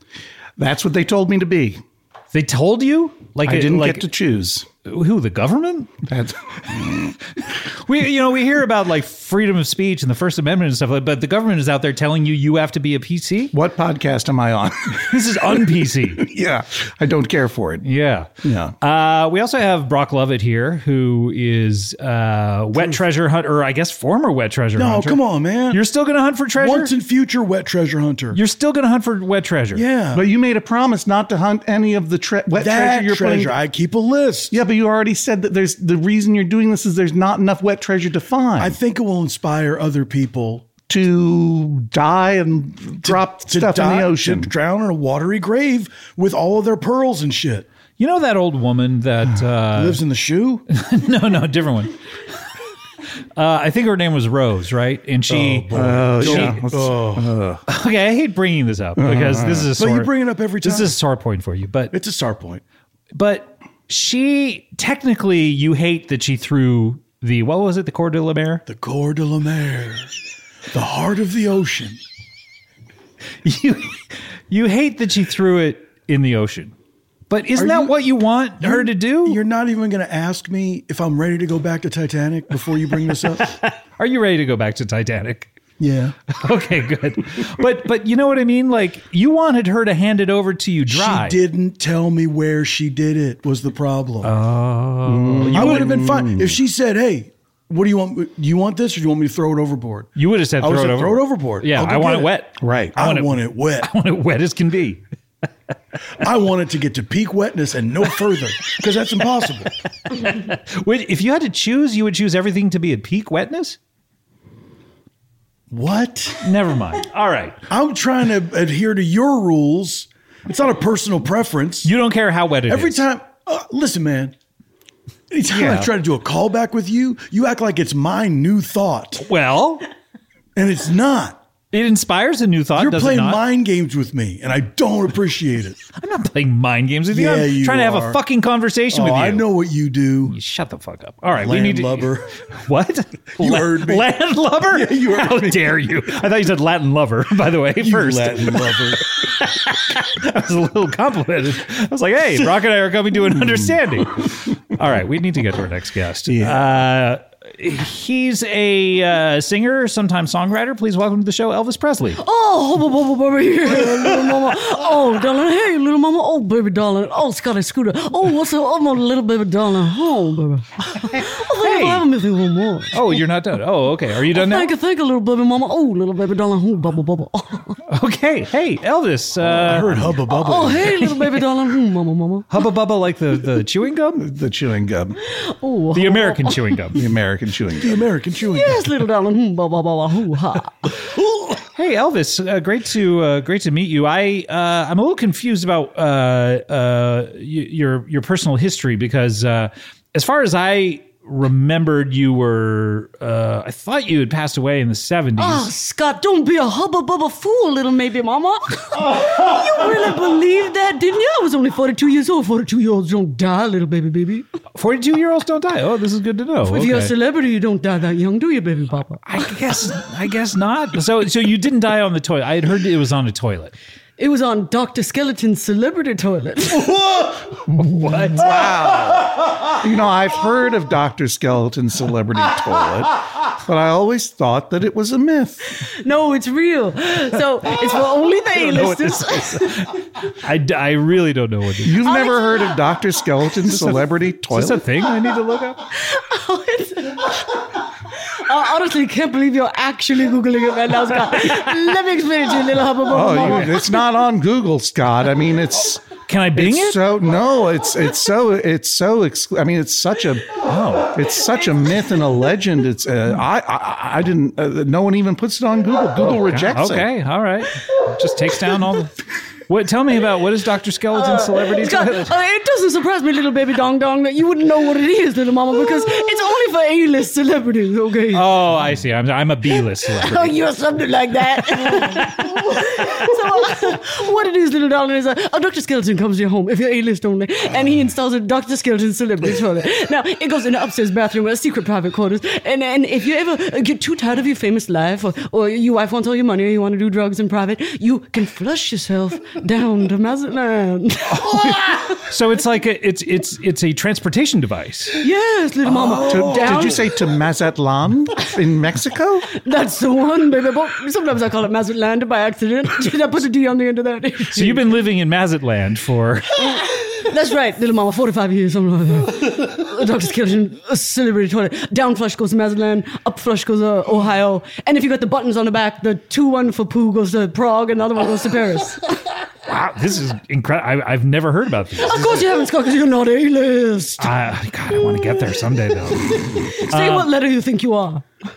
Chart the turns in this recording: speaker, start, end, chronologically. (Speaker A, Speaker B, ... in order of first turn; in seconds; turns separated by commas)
Speaker A: 0.6-1.8, Speaker B: 2.3-4.1, Speaker A: 3.4-4.7, Speaker B: 4.8-5.9, Speaker A: 6.0-7.1, Speaker B: 7.8-13.5, Speaker A: 13.5-15.4, Speaker B: 15.1-16.2, Speaker A: 16.1-17.9, Speaker B: 17.8-18.3, Speaker A: 18.4-18.7, Speaker B: 18.8-26.9, Speaker C: 24.8-25.8, Speaker C: 26.5-28.4, Speaker B: 28.3-29.8, Speaker C: 29.7-30.2, Speaker A: 30.1-33.5, Speaker C: 32.6-34.5, Speaker A: 34.5-38.8, Speaker C: 38.6-40.8, Speaker A: 40.9-44.5, Speaker C: 43.0-47.7, Speaker B: 48.0-50.0, Speaker C: 49.7-50.6, Speaker B: 50.7-51.9, Speaker B: 53.4-56.6, Speaker C: 55.3-57.3, Speaker A: 55.7-57.6, Speaker B: 57.7-61.9, Speaker A: 59.0-59.7, Speaker C: 59.7-60.9, Speaker C: 61.9-62.6, Speaker B: 63.1-68.6, Speaker C: 68.7-70.1, Speaker C: 70.7-72.0, Speaker B: 73.4-76.7, Speaker B: 77.3-79.4, Speaker C: 77.5-78.0, Speaker C: 78.6-83.5, Speaker B: 83.3-85.5, Speaker C: 85.8-86.1, Speaker B: 86.3-91.4, Speaker C: 90.9-94.3, Speaker B: 94.2-95.9, Speaker A: 95.0-96.6, Speaker C: 95.5-102.4, Speaker B: 100.2-105.0, Speaker A: 102.6-103.0, Speaker C: 102.9-103.9, Speaker C: 106.2-109.7, Speaker B: 110.1-113.8, Speaker C: 115.7-116.4, Speaker B: 116.4-117.6, Speaker C: 117.7-121.9, Speaker B: 121.8-123.0, Speaker C: 122.7-124.3, Speaker C: 125.3-129.2, Speaker B: 125.5-125.9, Speaker B: 129.2-129.8, Speaker C: 130.6-131.4, Speaker B: 131.7-133.4, Speaker C: 132.7-135.8, Speaker B: 136.0-139.5, Speaker C: 137.1-138.2, Speaker C: 138.9-140.3, Speaker B: 140.2-162.2, Speaker C: 141.3-142.3, Speaker C: 143.4-144.1, Speaker C: 144.7-146.0, Speaker C: 147.8-149.1, Speaker A: 156.3-156.8, Speaker D: 162.2-173.2, Speaker B: 171.1-172.0, Speaker B: 172.9-174.7, Speaker D: 174.3-177.8, Speaker B: 177.9-180.1, Speaker C: 179.4-181.1, Speaker D: 180.2-182.4, Speaker B: 182.5-184.2, Speaker A: 184.1-185.2, Speaker D: 185.3-187.0, Speaker B: 185.9-187.0, Speaker A: 186.9-188.1, Speaker C: 187.8-188.8, Speaker D: 188.4-190.7, Speaker B: 191.5-205.7, Speaker D: 205.4-214.4, Speaker B: 214.7-217.1, Speaker D: 216.6-219.2, Speaker B: 219.2-223.7, Speaker D: 224.2-227.4, Speaker B: 227.7-228.7, Speaker A: 228.3-235.7, Speaker D: 236.0-239.9, Speaker B: 238.6-242.1, Speaker A: 241.8-244.8, Speaker D: 242.1-242.7, Speaker B: 243.7-245.8, Speaker D: 245.9-254.0, Speaker A: 253.1-267.1, Speaker B: 256.3-257.0, Speaker B: 260.6-261.1, Speaker B: 266.2-269.1, Speaker B: 269.7-272.3, Speaker D: 271.1-278.5, Speaker B: 278.3-280.5, Speaker D: 280.2-302.2, Speaker B: 301.4-305.2, Speaker D: 305.2-307.1, Speaker B: 306.1-306.5, Speaker A: 306.2-309.5, Speaker D: 309.5-314.9, Speaker B: 314.5-316.6, Speaker D: 316.6-329.1, Speaker B: 329.7-332.4, Speaker D: 332.0-334.3, Speaker B: 334.2-337.3, Speaker D: 336.3-338.2